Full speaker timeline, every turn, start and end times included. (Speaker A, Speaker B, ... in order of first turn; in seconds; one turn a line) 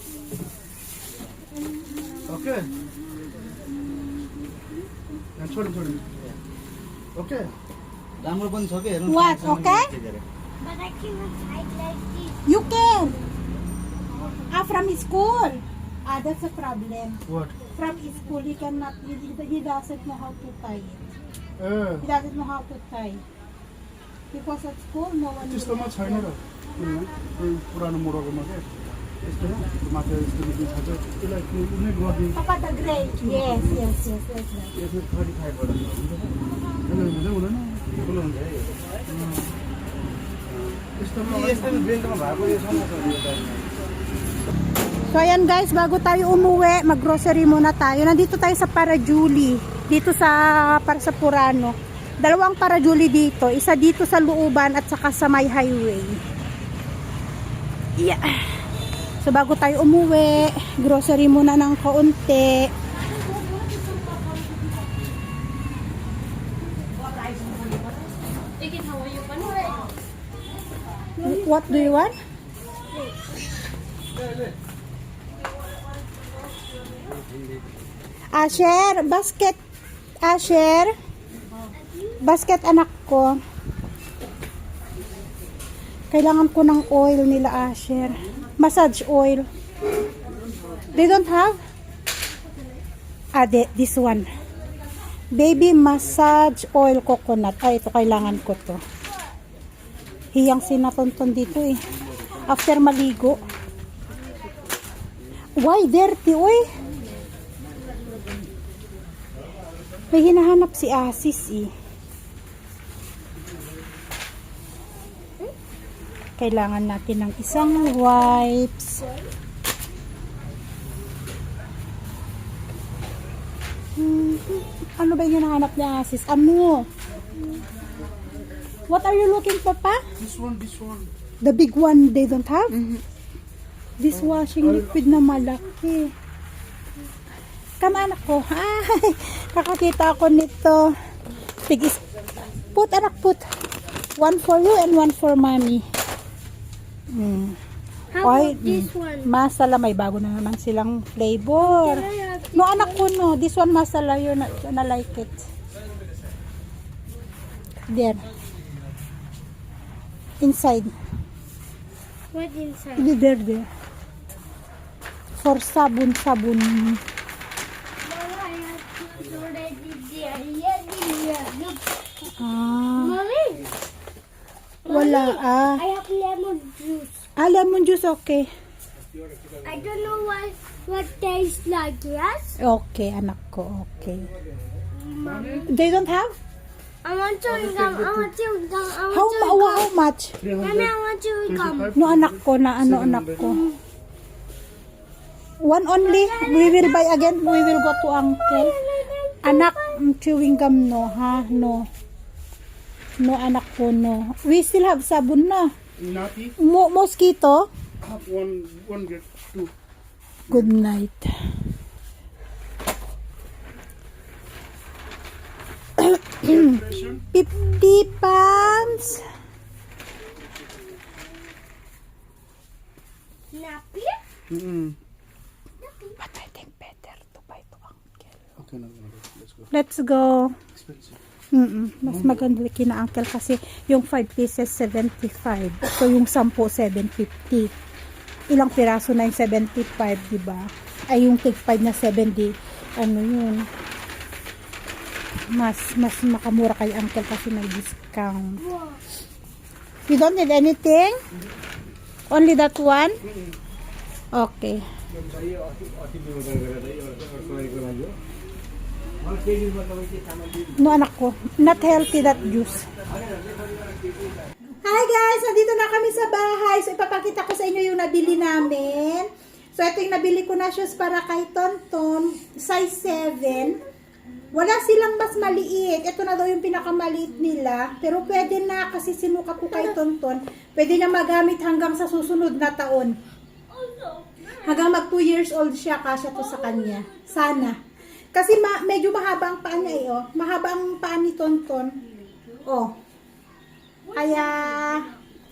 Speaker A: 2.3-2.7
Speaker B: 5.4-6.0
Speaker B: 7.1-7.5
Speaker A: 8.2-10.2
Speaker C: 9.1-9.9
Speaker D: 10.6-12.4
Speaker C: 12.4-13.2
Speaker C: 14.5-17.2
Speaker B: 17.3-17.5
Speaker C: 17.7-21.0
Speaker B: 21.6-22.0
Speaker C: 22.0-23.2
Speaker C: 24.3-26.3
Speaker B: 25.4-28.7
Speaker B: 29.2-32.4
Speaker C: 32.3-34.7
Speaker B: 33.2-33.9
Speaker A: 34.8-36.4
Speaker B: 36.9-38.0
Speaker A: 38.0-38.7
Speaker B: 39.1-39.5
Speaker B: 40.5-41.7
Speaker A: 41.3-43.7
Speaker C: 45.1-56.2
Speaker C: 58.0-58.4
Speaker C: 59.2-62.7
Speaker D: 68.6-69.8
Speaker C: 71.2-72.1
Speaker C: 78.3-79.6
Speaker C: 80.2-80.9
Speaker C: 82.2-83.4
Speaker C: 86.1-89.5
Speaker C: 90.9-91.6
Speaker C: 93.3-94.2
Speaker C: 95.3-98.8
Speaker C: 100.3-101.8
Speaker C: 102.3-103.4
Speaker C: 105.6-106.6
Speaker C: 110.1-111.7
Speaker C: 116.4-119.1
Speaker C: 124.0-126.9
Speaker C: 128.9-130.0
Speaker B: 130.2-131.1
Speaker C: 131.4-132.8
Speaker B: 132.8-133.0
Speaker C: 134.0-136.1
Speaker C: 137.8-140.9
Speaker C: 141.7-142.0
Speaker C: 142.7-143.4
Speaker C: 144.2-145.8
Speaker C: 147.1-147.6
Speaker D: 148.1-149.3
Speaker C: 148.2-155.4
Speaker D: 151.6-153.0
Speaker C: 157.9-158.2
Speaker C: 160.4-160.9
Speaker D: 162.3-163.1
Speaker C: 163.0-163.7
Speaker C: 165.4-167.0
Speaker D: 168.0-171.8
Speaker C: 172.4-173.2
Speaker D: 173.0-173.7
Speaker D: 174.8-177.2
Speaker C: 174.9-175.8
Speaker C: 177.4-178.5
Speaker D: 179.6-182.6
Speaker C: 182.6-184.3
Speaker D: 184.9-185.7
Speaker B: 185.2-185.7
Speaker C: 185.7-186.3
Speaker D: 187.0-189.9
Speaker B: 187.6-188.3
Speaker C: 189.1-190.4
Speaker B: 190.4-190.9
Speaker D: 190.6-191.9
Speaker B: 191.5-193.6
Speaker C: 191.9-193.6
Speaker D: 193.4-193.8
Speaker C: 195.6-198.7
Speaker D: 196.0-197.6
Speaker D: 198.1-199.9
Speaker C: 199.4-201.8
Speaker C: 203.2-205.7
Speaker B: 206.0-206.5
Speaker C: 206.6-207.7
Speaker B: 208.0-209.7
Speaker C: 210.5-211.3
Speaker C: 216.0-216.6
Speaker B: 216.4-217.2
Speaker C: 217.3-219.2
Speaker D: 223.5-224.2
Speaker B: 224.5-225.0
Speaker C: 226.2-228.3
Speaker B: 228.6-229.7
Speaker C: 229.7-230.6
Speaker B: 230.7-231.2
Speaker C: 231.5-237.7
Speaker C: 238.5-243.7
Speaker C: 245.5-248.6
Speaker D: 248.6-249.0
Speaker C: 250.1-251.2
Speaker C: 252.3-253.1
Speaker C: 254.3-254.8
Speaker A: 255.2-258.1
Speaker A: 259.2-260.6
Speaker C: 260.8-262.9
Speaker A: 263.1-263.9
Speaker C: 264.8-273.8
Speaker C: 274.5-283.1
Speaker D: 283.7-284.9
Speaker C: 284.6-287.8
Speaker D: 286.5-287.4
Speaker C: 288.3-291.9
Speaker C: 292.6-292.9
Speaker C: 294.1-295.1